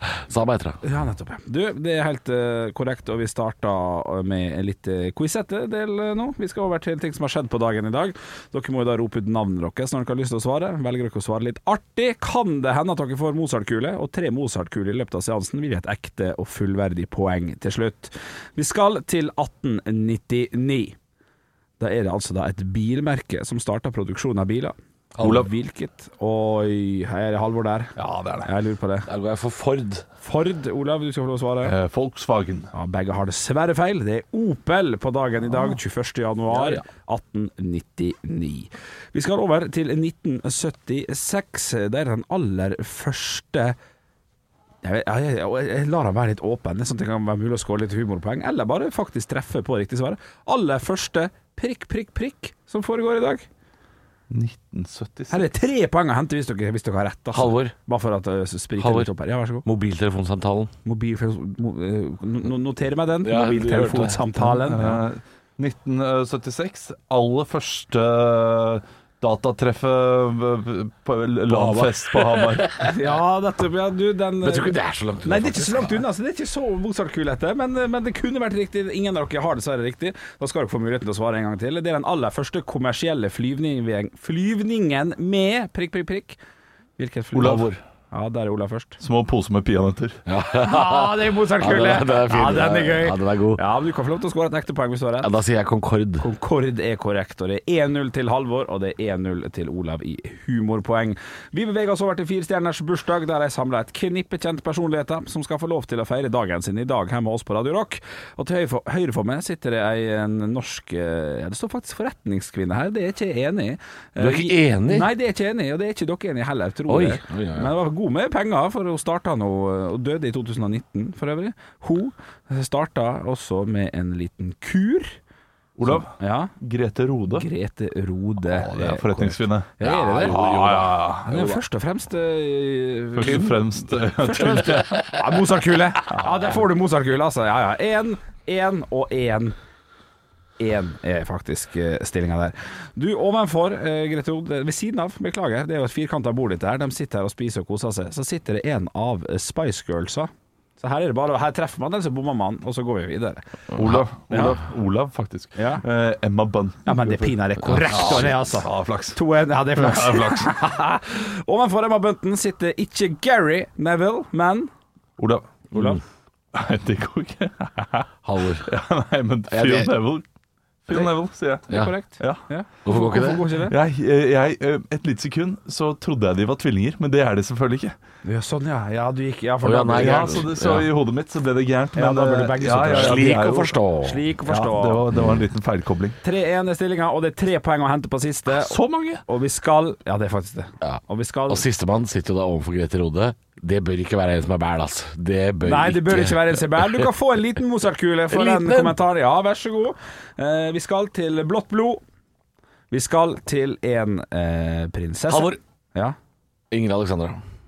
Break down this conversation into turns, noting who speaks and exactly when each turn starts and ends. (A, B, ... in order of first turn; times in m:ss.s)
0:00.1-0:00.8 A
0:00.8-0:21.0 B
0:21.8-0:29.1 B
0:25.2-0:25.4 A
0:25.2-0:25.5 C
0:28.0-0:28.5 C
0:29.1-0:30.1 A
0:30.2-0:31.8 B
0:31.6-0:32.7 C
0:32.7-0:43.8 B
0:36.5-0:36.8 A
0:44.8-0:53.5 B
0:54.3-0:55.5 C
0:55.3-0:59.6 B
0:57.3-0:57.7 A
0:58.8-0:59.1 A
0:59.6-1:00.7 A
1:00.8-1:05.0 B
1:03.2-1:04.8 A
1:04.7-1:12.8 C
1:11.5-1:12.9 A
1:12.9-1:26.4 B
1:14.4-1:16.0 A
1:27.0-1:29.0 B
1:27.3-1:27.8 C
1:29.0-1:30.2 C
1:30.3-1:33.6 A
1:30.6-1:35.3 B
1:35.2-1:36.3 A
1:36.2-2:05.2 B
1:54.2-1:55.1 A
1:56.9-1:57.7 A
2:05.8-2:07.5 C
2:05.8-2:06.5 B
2:07.3-2:10.4 B
2:08.5-2:11.6 C
2:09.8-2:11.1 A
2:11.3-2:19.6 B
2:13.2-2:15.0 C
2:13.2-2:13.5 A
2:14.4-2:15.2 A
2:16.1-2:16.5 C
2:20.6-2:33.5 B
2:33.8-2:37.3 C
2:34.3-2:34.6 B
2:35.6-2:35.8 B
2:36.9-2:44.7 B
2:37.6-2:38.3 A
2:37.9-2:39.2 C
2:39.7-2:40.6 C
2:45.2-2:45.5 C
2:45.7-2:46.0 A
2:45.7-2:46.0 B
2:46.5-2:48.1 C
2:48.2-2:48.7 A
2:48.6-2:50.2 C
2:49.5-2:49.9 A
2:50.9-2:52.4 C
2:51.7-2:53.8 B
2:52.8-2:53.4 A
2:53.7-2:58.0 C
2:58.2-3:00.4 B
2:59.6-3:00.9 A
3:00.0-3:03.7 C
3:02.0-3:03.4 B
3:02.9-3:04.2 A
3:04.0-3:05.0 B
3:04.5-3:06.2 C
3:06.2-3:11.6 B
3:08.5-3:09.2 C
3:10.8-3:17.1 A
3:15.6-3:22.0 B
3:18.3-3:19.0 A
3:22.9-3:26.2 B
3:25.3-3:25.6 A
3:26.7-3:27.4 A